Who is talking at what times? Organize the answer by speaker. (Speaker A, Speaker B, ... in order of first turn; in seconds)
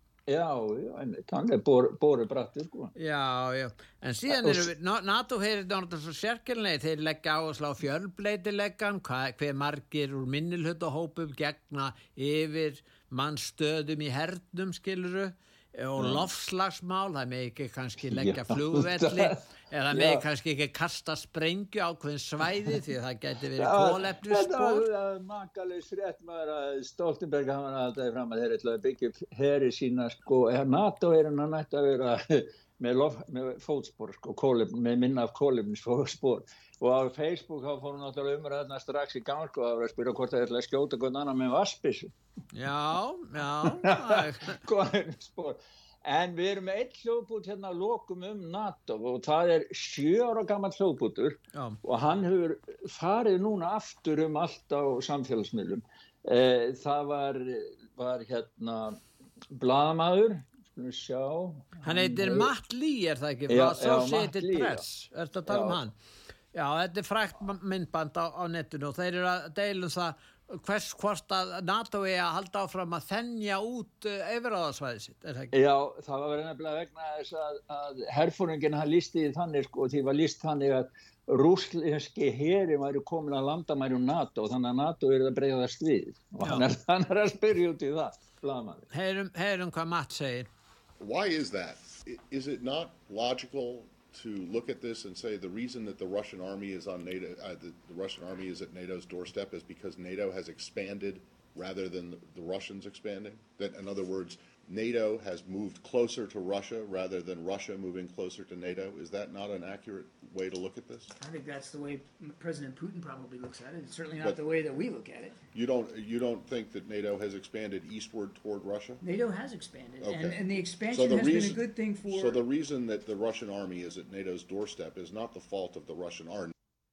Speaker A: 0.3-2.9, 4.3-4.7, 16.0-16.2, 18.0-20.2, 23.6-42.1, 43.6-62.5, 63.5-64.8, 65.5-65.8, 75.5-88.9
Speaker B: 3.0-24.9, 42.5-44.6, 51.5-51.8, 61.8-65.9, 66.5-75.5, 88.9-90.5
Speaker C: 91.0-111.1, 115.5-119.0, 120.0-126.5
Speaker D: 111.2-115.4, 119.0-122.4